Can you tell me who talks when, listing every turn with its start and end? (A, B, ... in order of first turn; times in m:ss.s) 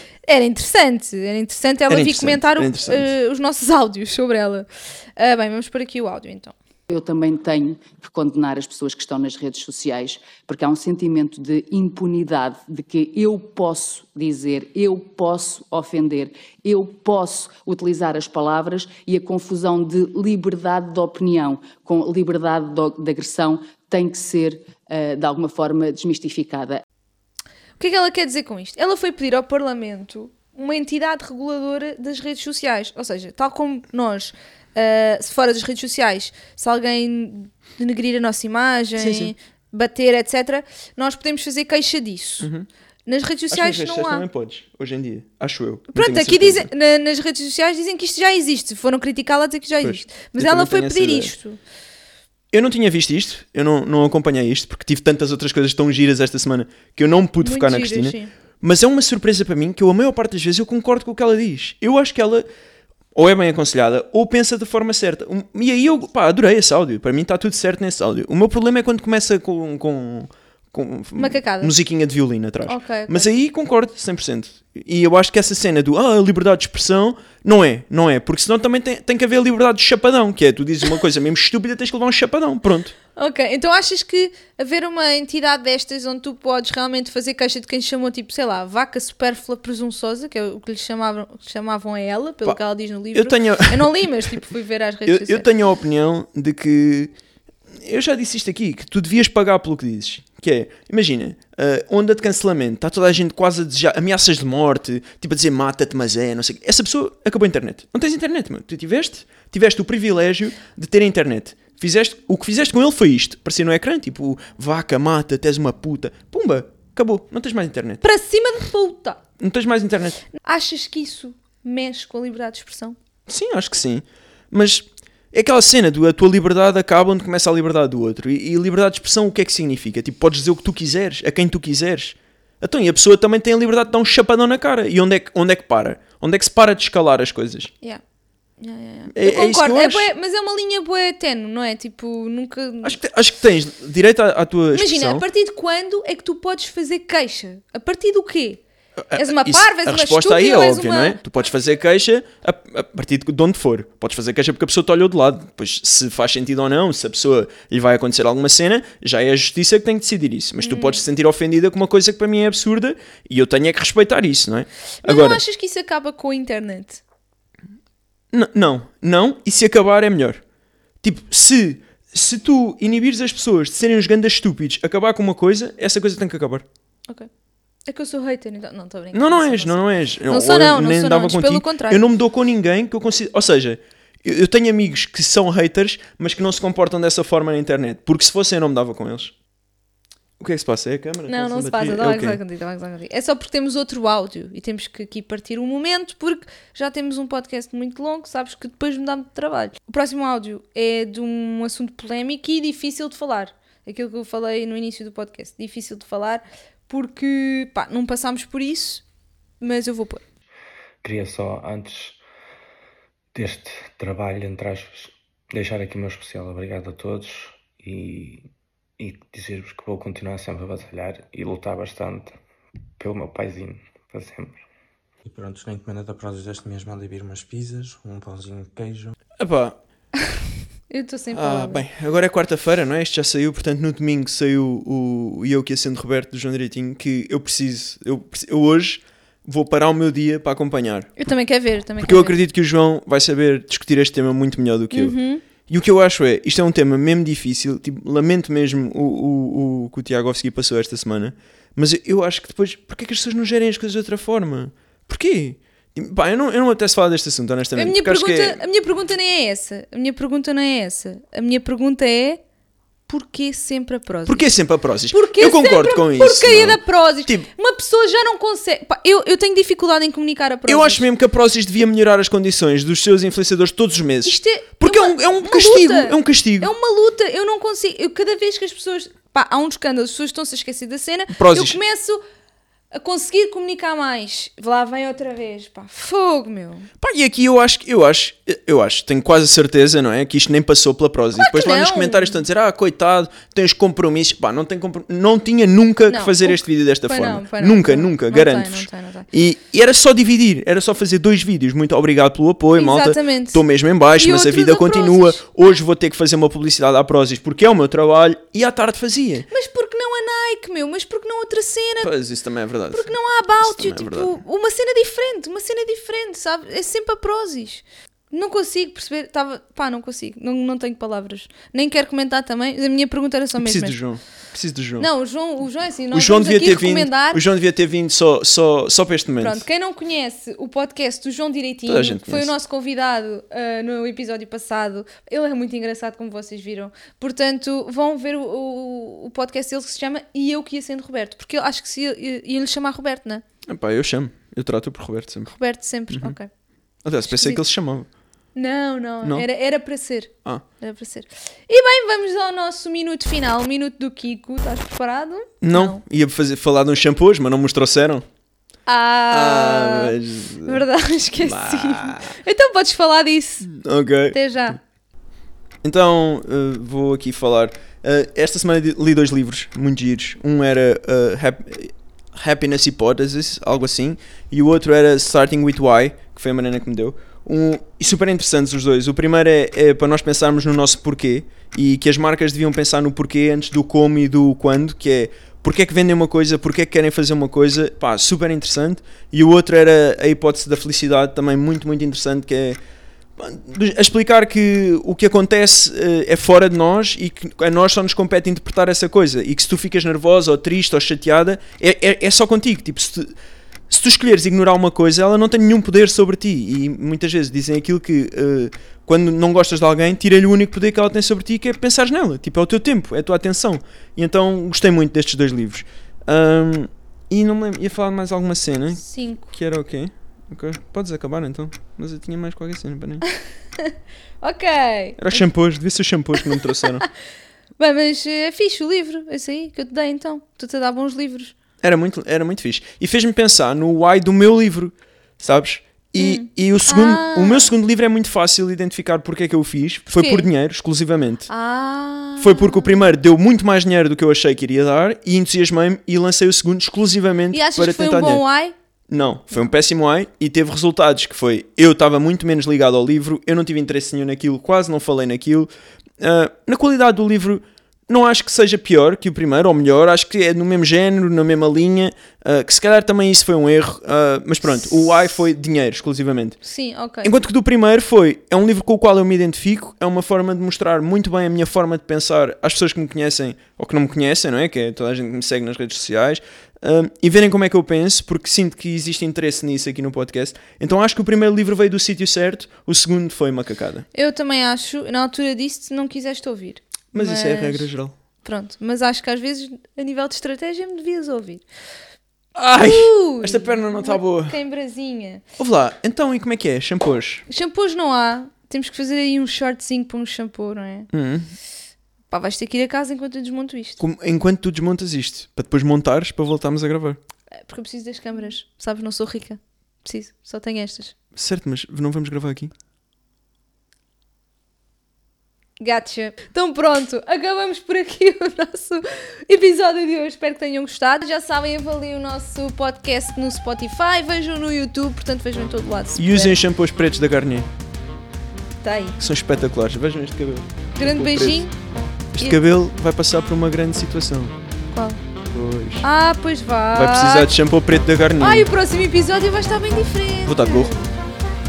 0:00.3-0:06.5 A
0:01.9-0:03.1 B
0:06.9-0:26.8 C
0:27.8-0:42.5 A
0:39.0-0:39.3 B
0:42.4-0:42.7 B
0:43.1-0:44.2 A
0:43.5-0:46.7 B
0:45.9-0:51.6 A
0:49.8-0:51.3 B
0:52.5-1:02.4 B
0:57.4-0:58.3 A
1:03.1-1:22.9 B
1:11.2-1:11.7 A
1:12.7-1:13.3 A
1:23.2-1:35.4 A
1:33.1-1:34.4 B
1:35.0-1:37.1 B
1:37.7-1:58.0 B
1:58.0-1:59.2 A
1:59.4-2:00.2 B
2:00.4-2:03.0 A
2:03.3-2:17.7 B
2:18.6-2:23.0 A
2:19.1-2:20.1 B
2:22.8-2:25.2 B
2:24.7-2:28.6 A
2:29.0-2:45.4 B
2:29.2-2:31.2 A
2:40.6-2:41.0 A
2:45.0-2:47.0 A
2:48.3-2:50.4 B
2:51.0-2:56.6 B
2:57.9-3:02.0 A
2:59.1-3:09.3 B
3:10.4-3:12.4 B
3:11.3-3:29.0 A
3:29.6-3:30.2 A
3:31.0-3:32.2 D
3:33.3-3:38.4 D
3:39.0-3:42.3 D
3:43.0-3:44.6 D
3:45.2-3:49.2 E
3:49.4-3:49.8 B
3:50.9-3:51.8 A
3:51.3-4:01.2 B
4:01.2-4:02.4 A
4:02.0-4:18.6 B
4:04.9-4:05.4 A
4:17.7-4:22.4 A
4:23.1-4:24.4 A
4:24.2-4:27.4 B
4:25.1-4:31.0 A
4:30.7-4:36.7 B
4:34.2-4:42.2 A
4:41.3-4:41.8 B
4:42.9-4:46.9 A
4:47.0-5:09.5 B
4:51.4-4:52.4 A
4:56.1-4:59.2 A
5:02.7-5:03.6 A
5:04.1-5:05.4 A
5:09.5-5:12.1 A
5:12.0-5:14.4 B
5:12.9-5:24.0 A
5:23.6-5:25.1 B
5:25.0-5:27.4 A
5:26.1-5:29.6 B
5:29.4-5:43.4 A
5:31.8-5:32.5 B
5:43.6-5:45.5 B
5:45.5-5:46.5 A
5:46.1-5:46.4 B
5:47.0-5:48.1 B
5:47.3-5:47.6 A
5:48.5-5:56.0 A
5:55.6-5:58.2 B
5:58.9-6:03.7 A
5:59.3-6:00.8 B
6:01.4-6:02.3 B
6:03.6-6:04.4 B
6:04.3-6:04.8 A
6:05.8-6:32.8 B
6:33.4-6:43.3 B
6:43.9-7:03.2 B
6:58.9-6:59.5 A
7:03.8-7:05.4 A
7:05.2-7:07.0 B
7:07.8-7:11.5 A
7:11.8-7:21.5 B
7:16.2-7:17.7 A
7:20.1-7:20.5 A
7:21.5-7:23.1 A
7:22.4-7:28.4 B
7:27.5-7:28.7 A
7:29.1-7:46.6 B
7:46.6-7:47.3 A
7:47.2-8:04.0 B
8:04.1-8:07.9 A
8:07.1-8:08.1 B
8:08.4-8:11.6 A
8:12.5-8:14.6 B
8:12.8-8:15.4 A
8:15.6-8:17.4 B
8:17.5-8:21.1 A
8:21.1-8:21.5 B
8:22.3-8:24.0 A
8:24.0-8:27.2 B
8:27.5-8:31.1 A
8:31.3-8:32.7 B
8:35.8-8:46.6 A
8:46.2-8:47.7 B
8:48.8-8:49.2 A
8:49.2-8:51.7 B
8:51.0-8:51.7 A
8:52.3-8:54.5 B
8:54.9-8:55.2 A
8:55.4-8:56.0 B
8:56.0-8:57.5 A
8:56.9-8:58.7 B
8:58.4-9:01.1 A
9:00.4-9:01.0 B